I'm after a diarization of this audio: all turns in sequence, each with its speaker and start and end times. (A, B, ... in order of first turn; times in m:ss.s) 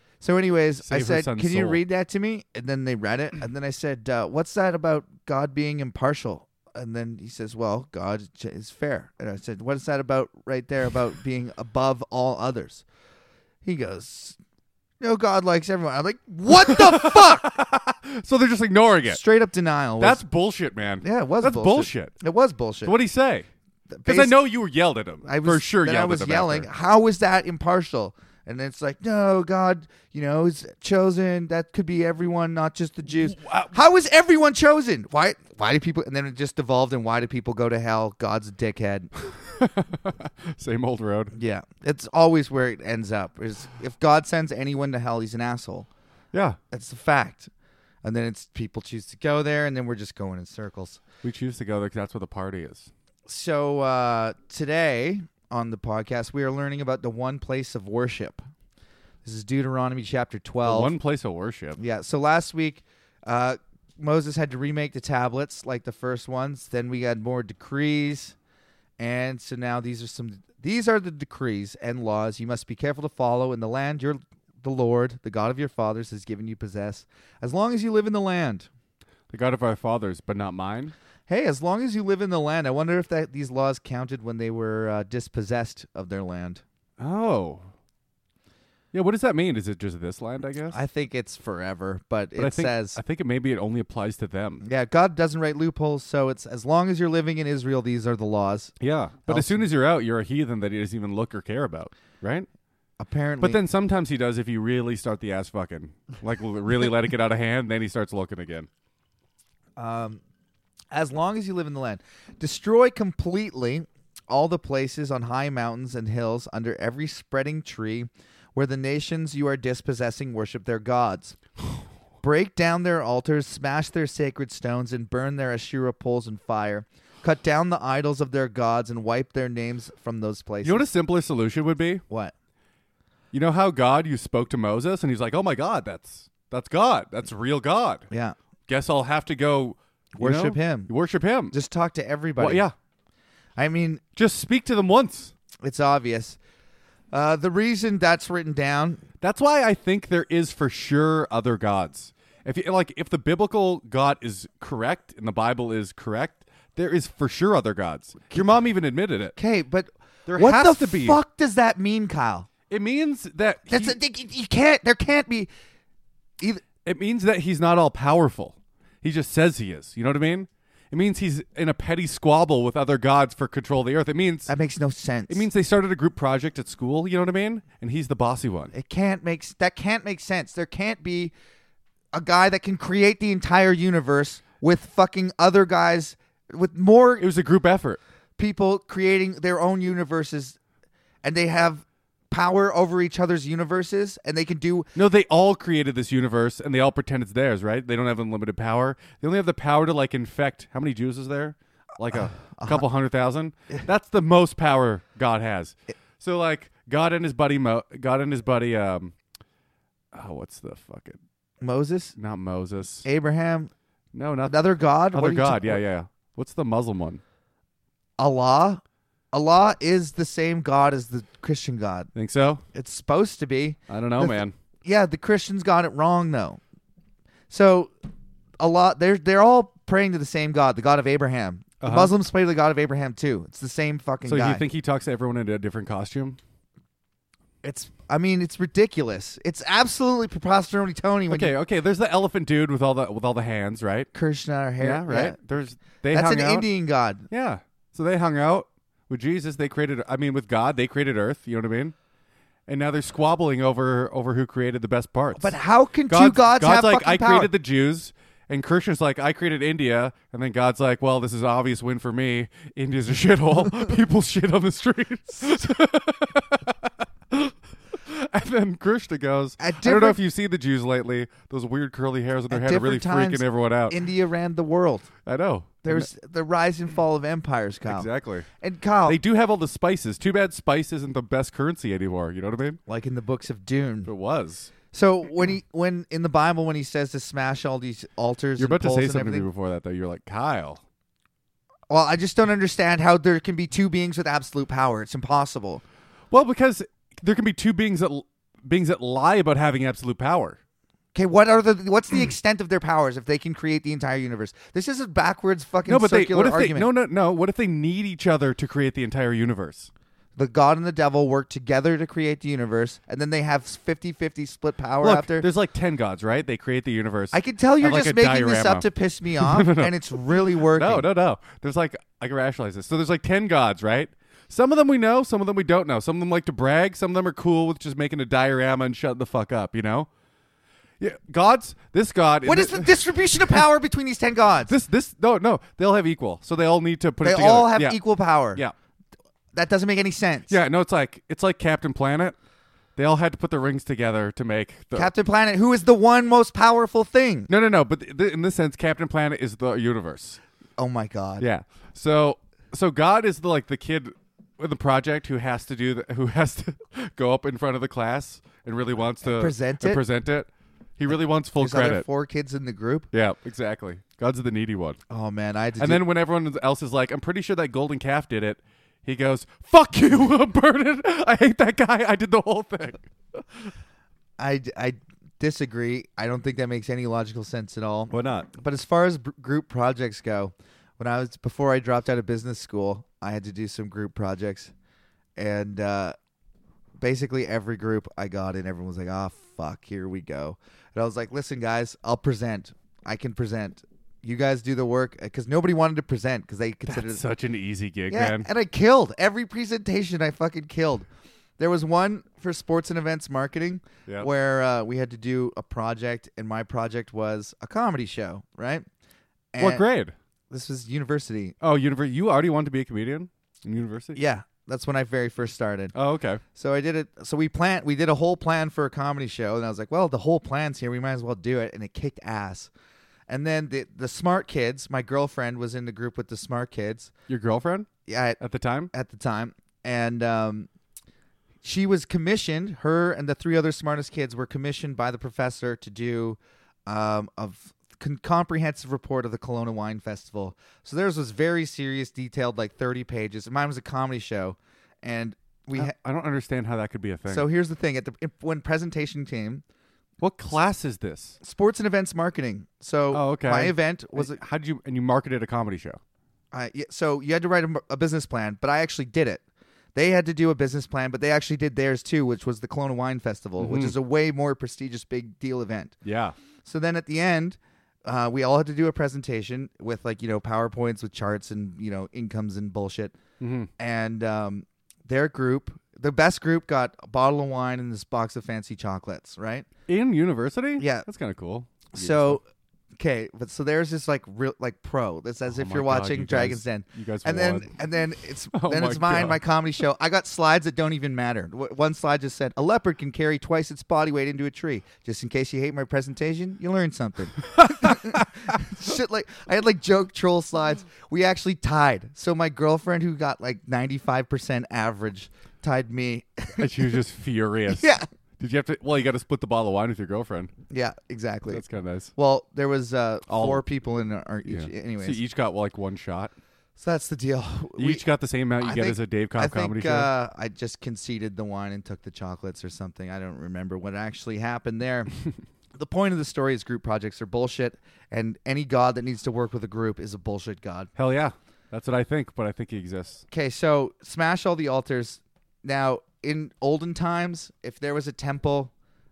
0:00.2-0:12.8 A
0:00.8-0:01.8 B
0:13.6-0:14.4 A
0:15.0-0:17.6 A
0:16.6-0:19.2 B
0:19.0-0:20.2 A
0:20.0-0:22.1 B
0:21.0-0:22.9 A
0:22.8-0:23.5 B
0:23.9-0:24.4 A
0:24.0-0:26.7 B
0:25.2-0:39.1 A
0:33.4-0:33.7 B
0:39.3-0:41.3 B
0:41.3-0:45.9 A
0:46.3-0:46.6 B
0:46.7-0:47.5 A
0:48.0-0:51.0 A
0:51.2-0:52.9 B
0:53.3-0:58.4 A
0:59.2-1:00.9 A
1:00.6-1:01.8 B
1:01.8-1:08.4 A
1:09.0-1:18.7 A
1:19.3-1:20.9 B
1:21.3-1:26.6 A
1:27.0-1:27.7 B
1:28.9-1:30.8 B
1:30.7-1:33.0 A
1:32.4-1:34.6 B
1:34.6-1:38.7 A
1:38.8-1:42.5 B
1:39.2-1:39.6 A
1:43.0-1:43.6 A
1:43.4-1:48.7 B
1:49.8-1:50.2 A
1:50.9-2:01.4 A
2:02.2-2:10.8 A
2:10.6-2:12.0 B
2:12.1-2:12.3 A
2:13.3-2:18.1 B
2:18.1-2:18.3 A
2:18.7-2:21.5 B
2:20.2-2:20.9 A
2:21.5-2:22.6 A
2:22.4-2:22.7 B
2:23.6-2:24.0 A
2:24.2-2:25.3 B
2:25.6-2:26.4 A
2:27.1-2:29.0 A
2:29.2-2:39.4 B
2:39.4-2:42.5 A
2:40.3-2:41.2 B
2:42.7-2:44.0 B
2:43.7-2:45.5 A
2:46.8-2:54.5 B
2:54.5-2:55.5 A
2:55.3-2:58.7 B
2:58.7-3:01.3 A
3:02.1-3:07.3 A
3:07.2-3:08.0 B
3:08.4-3:10.6 A
3:11.2-3:14.9 A
3:14.9-3:29.1 B
3:22.1-3:22.8 A
3:30.1-3:31.2 B
3:31.6-3:32.1 A
3:32.2-3:33.0 B
3:33.0-3:33.7 A
3:34.1-3:34.6 B
3:34.5-3:35.8 A
3:35.1-3:37.2 B
3:38.2-3:42.1 A
3:42.1-3:42.6 B
3:42.7-3:46.6 A
3:43.9-3:44.5 B
3:47.5-3:47.9 A
3:48.6-3:54.6 A
3:51.8-3:52.1 B
3:54.2-3:56.4 B
3:57.6-4:01.5 A
4:01.3-4:04.1 B
4:04.1-4:05.4 A
4:04.8-4:06.7 B
4:06.1-4:07.3 A
4:07.3-4:11.9 B
4:12.7-4:15.6 B
4:15.4-4:17.5 A
4:16.1-4:34.0 B
4:29.6-4:30.2 A
4:32.5-4:35.1 A
4:35.2-4:36.1 B
4:35.8-4:38.1 A
4:37.9-4:38.5 B
4:38.6-4:39.2 A
4:39.0-4:42.8 B
4:42.9-4:44.1 A
4:44.0-4:44.7 B
4:44.9-4:49.5 A
4:48.6-4:50.8 B
4:51.9-4:55.8 A
4:56.3-5:00.6 B
5:01.1-5:06.9 A
5:05.9-5:09.9 B
5:10.4-5:15.4 A
5:15.0-5:30.1 B
5:17.3-5:21.1 A
5:31.0-5:33.0 B
5:32.4-5:34.7 A
5:34.7-5:38.0 B
5:37.2-5:38.6 A
5:39.5-5:40.5 A
5:40.5-5:42.4 B
5:43.0-5:45.1 B
5:44.9-5:47.5 A
5:47.5-5:50.4 B
5:50.8-5:51.4 A
5:51.4-6:02.0 B
5:59.2-6:00.0 A
6:01.6-6:03.1 A
6:03.1-6:05.0 B
6:05.1-6:06.0 A
6:05.8-6:13.7 B
6:14.4-6:24.7 A
6:18.1-6:18.5 B
6:25.4-6:26.1 A
6:27.0-6:37.2 A
6:36.9-6:38.5 B
6:38.1-6:41.1 A
6:41.6-6:48.8 A
6:49.5-6:49.8 A
6:49.6-6:50.1 B
6:50.5-6:51.5 A
6:51.6-6:54.2 B
6:54.1-6:55.9 A
6:55.9-6:56.4 B
6:56.5-7:02.7 A
7:03.3-7:07.1 A
7:07.3-7:08.9 B
7:08.0-7:08.4 A
7:08.9-7:10.7 A
7:11.6-7:25.9 A
7:25.7-7:27.5 B
7:27.3-7:29.6 A
7:30.2-7:31.4 B
7:31.4-7:34.4 A
7:33.1-7:36.0 B
7:36.5-7:39.4 A
7:39.9-7:46.0 A
7:43.6-7:43.9 B
7:46.0-7:46.3 B
7:46.6-7:53.1 A
7:53.4-7:53.7 B
7:53.8-7:59.7 A
7:59.9-8:02.4 B
8:00.8-8:01.1 A
8:01.9-8:02.4 A
8:03.0-8:27.0 A
8:05.5-8:07.7 B
8:08.5-8:09.4 B
8:17.5-8:18.2 B
8:26.6-8:30.5 B
8:27.7-8:28.1 A
8:30.7-8:31.6 A
8:31.5-8:32.1 B
8:32.2-8:35.2 A
8:33.3-8:33.6 B
8:34.4-8:36.3 B
8:36.8-8:38.0 A
8:37.8-8:40.1 B
8:38.6-8:45.1 A
8:45.8-8:50.9 A
8:51.0-8:53.2 B
8:53.3-8:58.7 A